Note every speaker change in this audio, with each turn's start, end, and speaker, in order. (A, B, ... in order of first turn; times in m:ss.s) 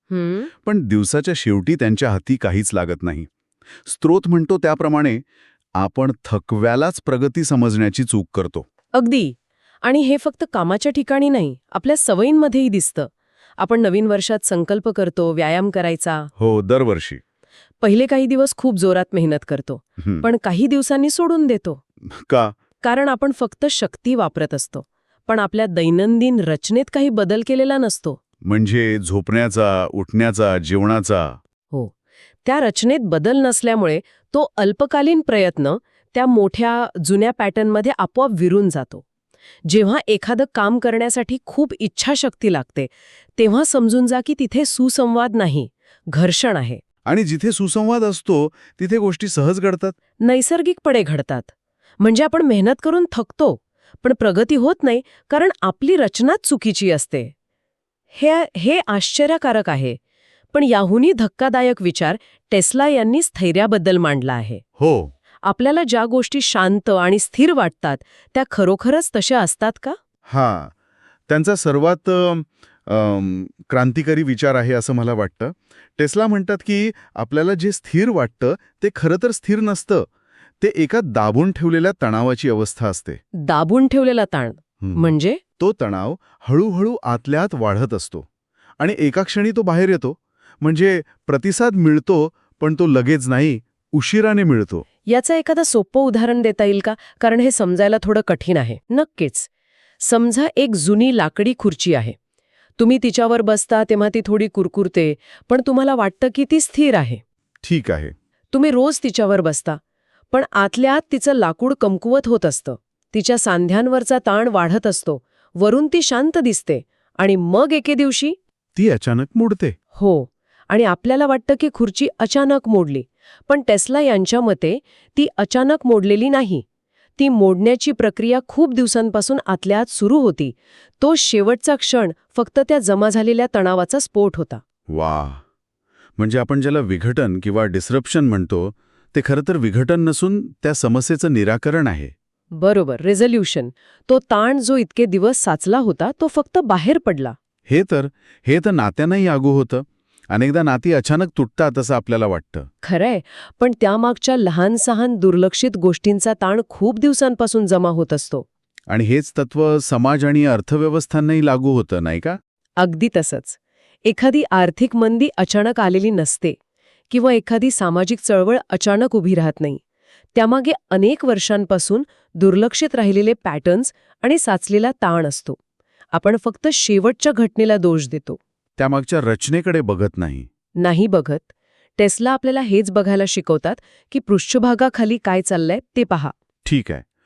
0:00.1-0:00.5 A
0:00.6-0:03.3 B
0:03.8-0:05.2 B
0:05.8-0:08.7 B
0:08.9-0:16.3 A
0:16.4-0:17.2 B
0:17.8-0:21.8 A
0:20.0-0:20.3 B
0:22.1-0:22.5 B
0:22.8-0:28.2 A
0:28.4-0:31.4 B
0:32.4-0:39.0 A
0:39.6-0:46.8 A
0:47.1-0:50.0 B
0:50.2-0:57.3 A
0:58.1-1:00.0 A
1:00.5-1:04.6 A
1:04.8-1:05.1 B
1:05.4-1:10.0 A
1:10.3-1:10.7 B
1:11.3-1:20.1 B
1:20.6-1:23.2 B
1:23.4-1:25.4 A
1:24.8-1:28.3 B
1:28.8-1:34.9 B
1:35.1-1:39.5 A
1:40.0-1:42.2 A
1:42.8-1:47.2 A
1:47.6-1:48.1 B
1:48.5-1:49.8 A
1:50.3-1:58.4 A
1:58.8-1:59.8 B
2:00.0-2:06.6 A
2:07.2-2:14.6 A
2:14.9-2:15.4 B
2:16.2-2:22.1 B
2:22.5-2:27.4 A
2:27.7-2:32.7 B
2:32.8-2:38.5 A
2:38.9-2:42.4 B
2:42.8-2:46.6 A
2:47.1-2:49.8 A
2:50.4-2:55.6 A
2:56.1-2:58.4 A
2:58.8-3:00.5 B
3:00.8-3:06.3 A
3:06.6-3:07.0 B